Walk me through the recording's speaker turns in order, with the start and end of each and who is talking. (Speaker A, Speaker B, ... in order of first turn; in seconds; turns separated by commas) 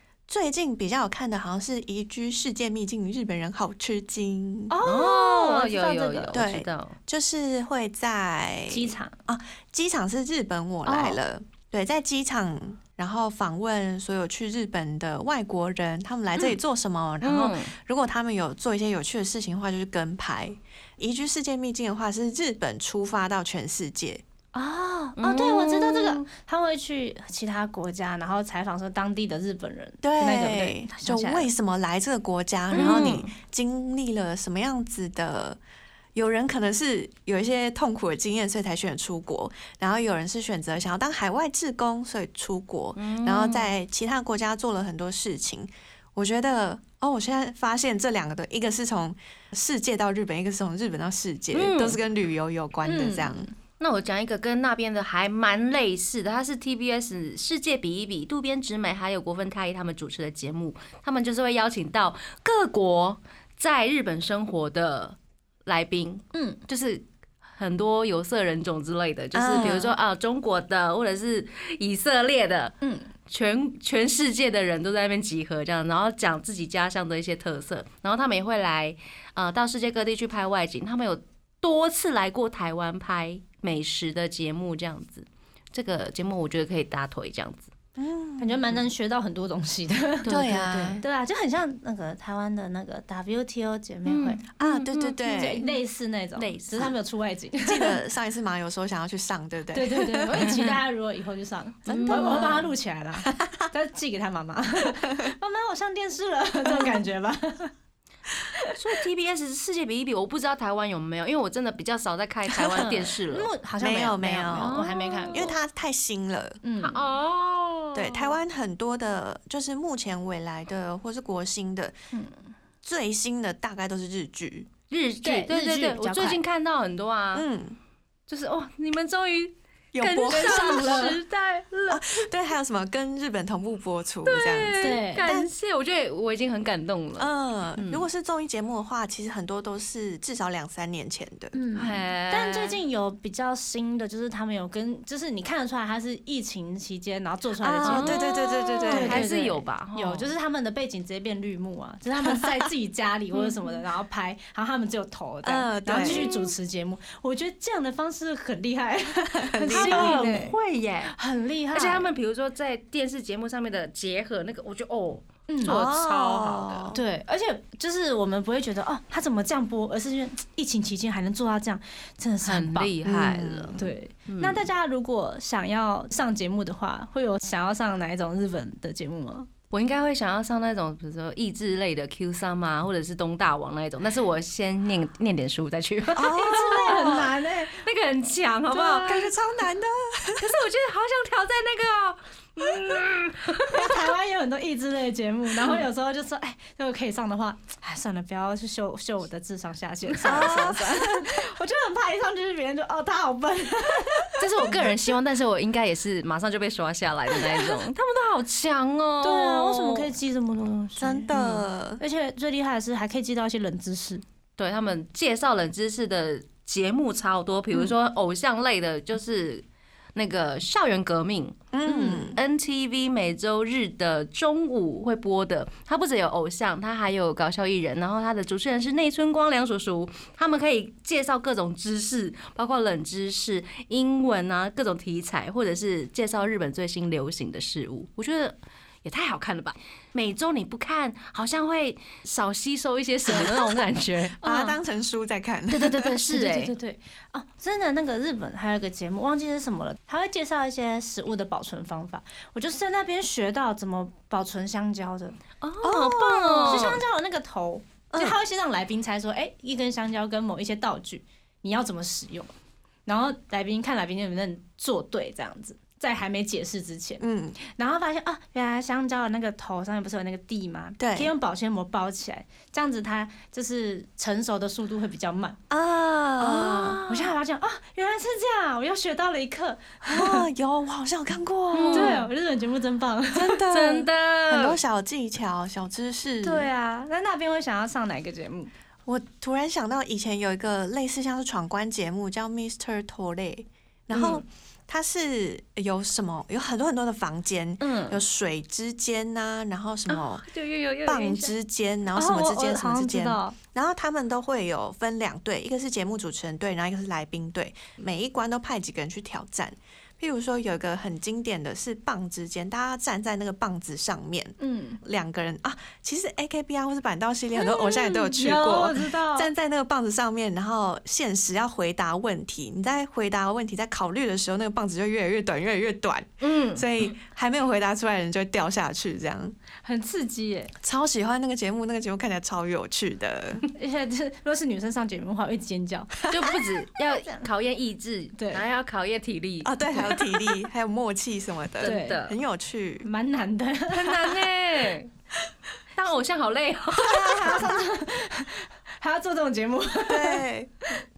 Speaker A: 0.3-4.8, Speaker B: 4.7-6.4, Speaker C: 4.8-7.0, Speaker A: 6.3-24.2, Speaker B: 8.7-9.2, Speaker B: 10.9-11.2, Speaker C: 17.2-17.7, Speaker B: 24.5-31.5, Speaker C: 25.2-26.2, Speaker A: 30.0-35.6, Speaker C: 32.7-33.3, Speaker B: 32.7-33.1, Speaker A: 36.1-53.5, Speaker C: 43.0-43.7, Speaker C: 51.5-52.0, Speaker B: 52.8-53.5, Speaker C: 53.8-67.0, Speaker B: 66.3-66.6, Speaker C: 67.6-72.8, Speaker A: 69.3-70.0, Speaker B: 72.8-73.1, Speaker C: 73.3-87.7, Speaker A: 88.0-88.6, Speaker B: 88.4-94.4, Speaker C: 90.2-91.0, Speaker A: 90.3-91.0, Speaker C: 94.1-95.8, Speaker A: 94.6-95.6, Speaker B: 95.3-98.0, Speaker C: 96.4-96.9, Speaker A: 97.6-100.5, Speaker B: 99.7-107.7, Speaker A: 101.9-102.7, Speaker C: 101.9-102.7, Speaker A: 103.2-103.7, Speaker C: 108.7-113.5, Speaker B: 112.7-115.5, Speaker A: 113.8-116.6, Speaker C: 114.6-115.5, Speaker B: 116.6-117.1, Speaker C: 116.8-118.3, Speaker A: 117.9-122.0, Speaker B: 122.1-122.4, Speaker A: 122.8-124.7, Speaker C: 124.9-127.5, Speaker B: 125.2-126.4, Speaker A: 127.3-127.8, Speaker C: 128.3-132.2, Speaker A: 129.9-131.1, Speaker B: 130.3-131.2, Speaker A: 131.9-135.5, Speaker C: 134.2-138.1, Speaker B: 134.8-135.3, Speaker A: 137.2-141.5, Speaker B: 141.5-148.2, Speaker C: 141.8-142.8, Speaker A: 147.6-149.3, Speaker C: 147.8-150.3, Speaker B: 148.9-160.6, Speaker C: 153.3-153.8, Speaker A: 155.4-156.3, Speaker C: 156.0-156.6, Speaker A: 159.3-160.3, Speaker C: 159.7-161.1, Speaker B: 161.1-162.1, Speaker C: 161.7-166.9, Speaker B: 165.5-165.8, Speaker A: 165.7-167.0, Speaker B: 166.9-172.9, Speaker C: 172.4-174.7, Speaker A: 173.0-173.8, Speaker B: 173.8-179.5, Speaker C: 179.7-189.3, Speaker A: 186.1-187.3, Speaker B: 186.3-187.8, Speaker A: 188.7-190.5, Speaker C: 190.4-194.0, Speaker B: 193.7-204.8, Speaker C: 200.2-200.8, Speaker A: 200.2-201.3, Speaker C: 204.4-210.1, Speaker B: 209.2-211.3, Speaker A: 211.0-212.0, Speaker C: 211.3-211.6, Speaker B: 212.0-214.2, Speaker C: 214.6-219.7, Speaker C: 220.2-221.7, Speaker A: 221.7-222.4, Speaker B: 221.9-222.4, Speaker C: 222.3-244.4, Speaker A: 243.4-243.6, Speaker A: 244.4-246.2, Speaker B: 244.4-244.7, Speaker C: 245.7-246.7, Speaker B: 246.3-255.4, Speaker C: 255.6-257.0, Speaker A: 255.8-256.9, Speaker B: 256.6-262.5, Speaker A: 258.1-258.4, Speaker B: 263.1-275.6, Speaker A: 267.2-267.6, Speaker A: 271.0-271.3, Speaker A: 275.7-277.0, Speaker B: 276.4-280.5, Speaker C: 276.6-277.3, Speaker A: 280.1-282.2, Speaker C: 281.7-282.3, Speaker B: 281.9-283.6, Speaker A: 283.3-286.7, Speaker C: 283.7-284.8, Speaker B: 286.4-288.7, Speaker A: 289.1-300.5, Speaker C: 294.1-294.4, Speaker B: 297.8-298.2, Speaker C: 300.1-301.5, Speaker A: 301.0-329.6, Speaker B: 302.1-303.6, Speaker B: 314.6-315.0, Speaker B: 317.6-319.5, Speaker C: 326.4-326.9, Speaker B: 329.8-330.7, Speaker A: 330.8-333.6, Speaker B: 333.7-336.3, Speaker C: 336.3-339.8, Speaker B: 338.4-338.6, Speaker A: 339.6-343.1, Speaker C: 341.8-342.4, Speaker B: 341.8-342.2, Speaker B: 343.0-344.2, Speaker C: 343.9-345.1, Speaker C: 346.0-347.8, Speaker B: 347.0-350.4, Speaker A: 350.1-350.7